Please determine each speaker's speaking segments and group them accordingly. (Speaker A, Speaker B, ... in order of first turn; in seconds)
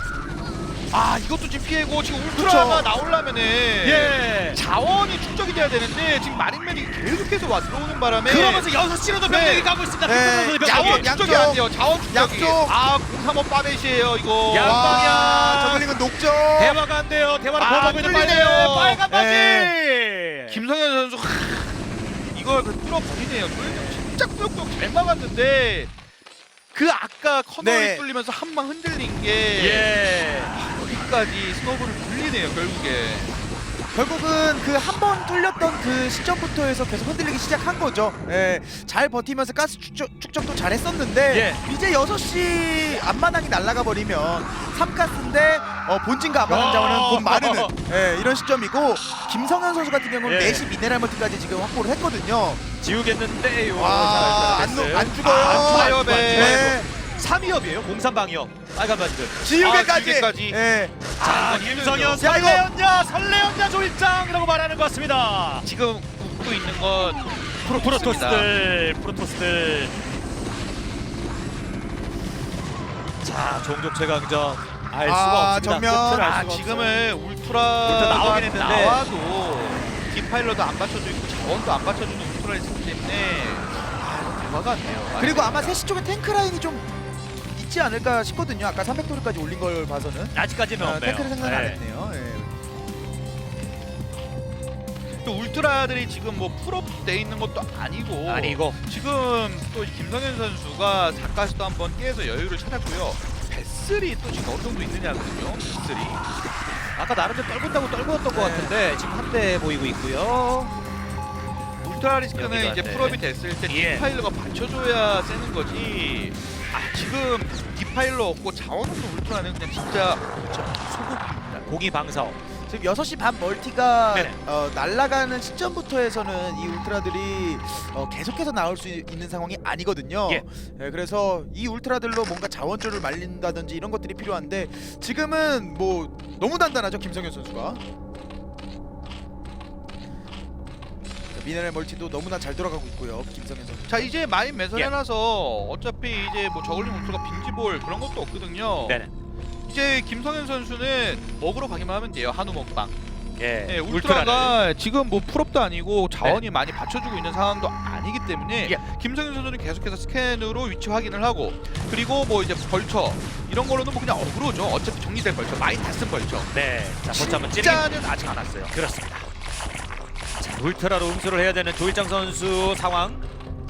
Speaker A: 0.9-8.7, 9.2-9.7, 10.6-15.9, 17.6-19.0, 20.5-25.9, 26.7-29.9, 30.5-33.3, 55.2-56.8, 59.5-60.6, 61.1-62.2, 65.6-68.5, 76.1-85.8, 95.2-106.2, 111.8-121.7, 143.9-149.0, 149.7-152.9, 153.7-166.5, 167.1-168.7
Speaker B: 2.3-2.9, 10.0-12.7, 14.6-16.8, 19.1-19.7, 27.6-28.0, 33.9-52.6, 53.7-56.9, 59.4-61.0, 62.2-62.6, 75.0-76.3, 85.2-86.9, 87.5-92.5, 108.3-108.7, 122.7-137.8, 141.3-144.1
Speaker C: 3.8-4.6, 8.2-11.1, 14.5-15.7, 16.6-20.6, 29.6-30.5, 41.3-41.6, 46.5-47.7, 50.2-50.7, 52.8-59.4, 61.2-65.7, 67.7-69.9, 73.2-76.9, 77.8-79.0, 90.3-91.8, 98.2-98.8, 107.0-110.7, 112.3-114.0, 121.6-122.4, 124.1-124.4, 148.8-149.1, 153.4-154.6, 166.5-167.9, 168.7-169.3, 170.4-173.2